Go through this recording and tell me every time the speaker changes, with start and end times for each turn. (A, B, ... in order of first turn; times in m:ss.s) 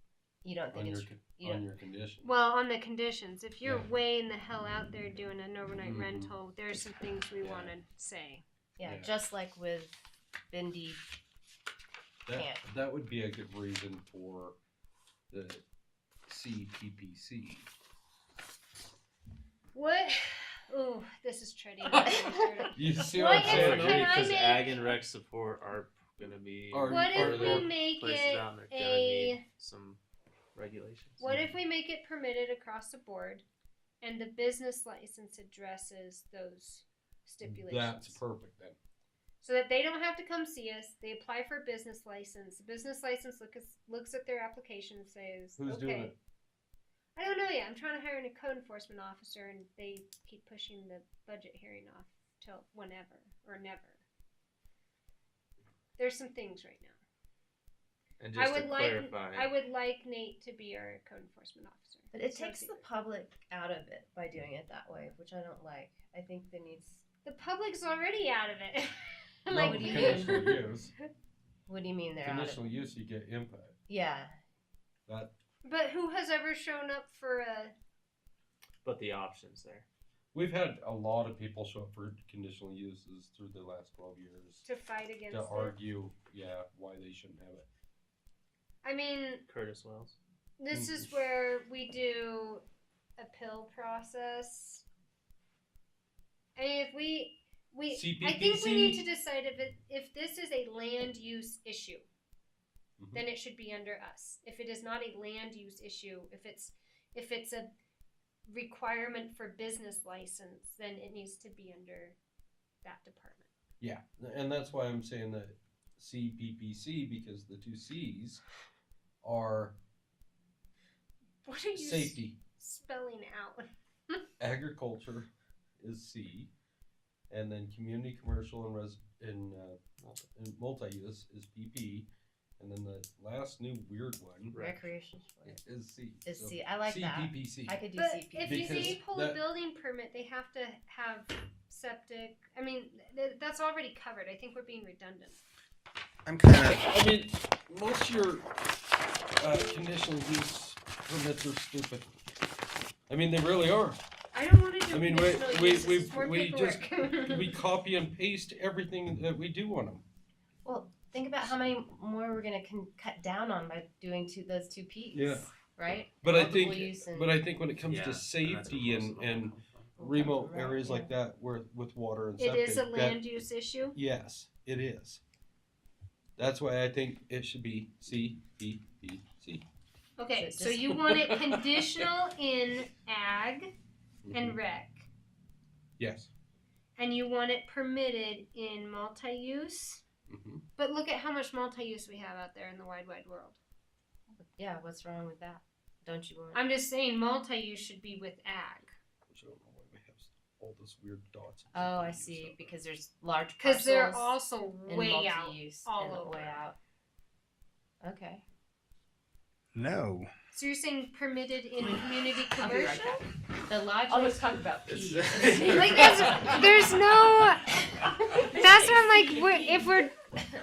0:00.4-0:01.6 A
0:00.7-0:02.3 B
0:02.2-0:08.4 C
0:05.8-0:06.3 B
0:07.4-0:07.7 B
0:08.8-0:10.0 A
0:08.8-0:09.1 B
0:10.5-0:11.0 A
0:12.3-0:14.6 B
0:12.3-0:12.6 A
0:15.3-0:15.6 B
0:16.3-0:17.7 B
0:19.7-0:24.9 C
0:22.7-0:24.3 B
0:23.3-0:30.0 D
0:26.7-0:27.7 B
0:26.8-0:29.4 C
0:30.5-0:31.2 D
0:31.2-0:33.4 C
0:34.0-0:38.2 C
0:37.4-0:38.8 B
0:39.4-0:46.1 C
0:45.6-0:46.1 B
0:47.2-0:54.0 C
0:56.0-0:57.0 C
0:58.2-0:59.5 D
0:58.3-1:02.8 C
1:02.1-1:07.0 A
1:07.2-1:10.6 C
1:09.5-1:10.9 B
1:09.5-1:10.4 A
1:11.7-1:12.7 A
1:12.2-1:13.8 B
1:13.9-1:14.3 A
1:15.1-1:15.3 B
1:15.6-1:17.7 C
1:18.8-1:19.8 D
1:20.3-1:24.6 B
1:24.6-1:25.7 C
1:25.3-1:27.7 B
1:28.8-1:29.4 C
1:29.5-1:30.2 D
1:30.6-1:32.6 C
1:30.7-1:31.0 B
1:33.2-1:34.8 C
1:36.6-1:42.0 C
1:37.9-1:39.0 B
1:43.0-1:43.2 B
1:43.1-1:47.7 C
1:48.5-1:52.2 C
1:52.8-1:53.5 C
1:53.8-1:58.4 B
1:59.2-1:59.8 B
2:01.4-2:04.2 C
2:01.7-2:02.4 B
2:04.4-2:05.3 B
2:05.8-2:06.5 B
2:07.3-2:09.8 B
2:10.0-2:10.2 D
2:10.3-2:12.1 B
2:12.6-2:14.6 B
2:14.5-2:14.8 D
2:14.6-2:15.6 A
2:15.4-2:17.8 B
2:16.2-2:19.0 A
2:17.9-2:25.4 C
2:18.4-2:19.4 B
2:26.2-2:26.9 E
2:26.7-2:28.5 B
2:29.4-2:32.1 B
2:33.1-2:34.0 B
2:34.3-2:37.5 C
2:34.9-2:40.0 B
2:40.6-2:47.4 A
2:45.1-2:45.5 B
2:46.2-2:53.2 B
2:47.8-2:49.9 D
2:50.0-2:51.1 A
2:52.4-2:54.0 C
2:53.9-2:55.2 B
2:56.4-2:59.6 B
3:00.2-3:03.7 C
3:00.3-3:00.9 A
3:01.1-3:02.0 B
3:04.2-3:04.6 B
3:04.3-3:05.1 C
3:06.0-3:06.3 B
3:07.0-3:10.0 C
3:10.3-3:10.6 B
3:10.8-3:13.6 C
3:14.3-3:16.6 A
3:16.5-3:18.9 C
3:19.3-3:22.7 B
3:21.7-3:24.3 A
3:23.6-3:26.6 C
3:24.9-3:26.8 A
3:28.0-3:28.4 A
3:29.7-3:30.3 E
3:30.5-3:33.0 C
3:32.6-3:34.6 A
3:32.6-3:33.2 F
3:34.1-3:36.9 F
3:34.9-3:36.3 E
3:35.2-3:36.3 A
3:35.6-3:37.7 C
3:38.4-3:39.9 F
3:38.5-3:40.1 C
3:38.6-3:38.9 A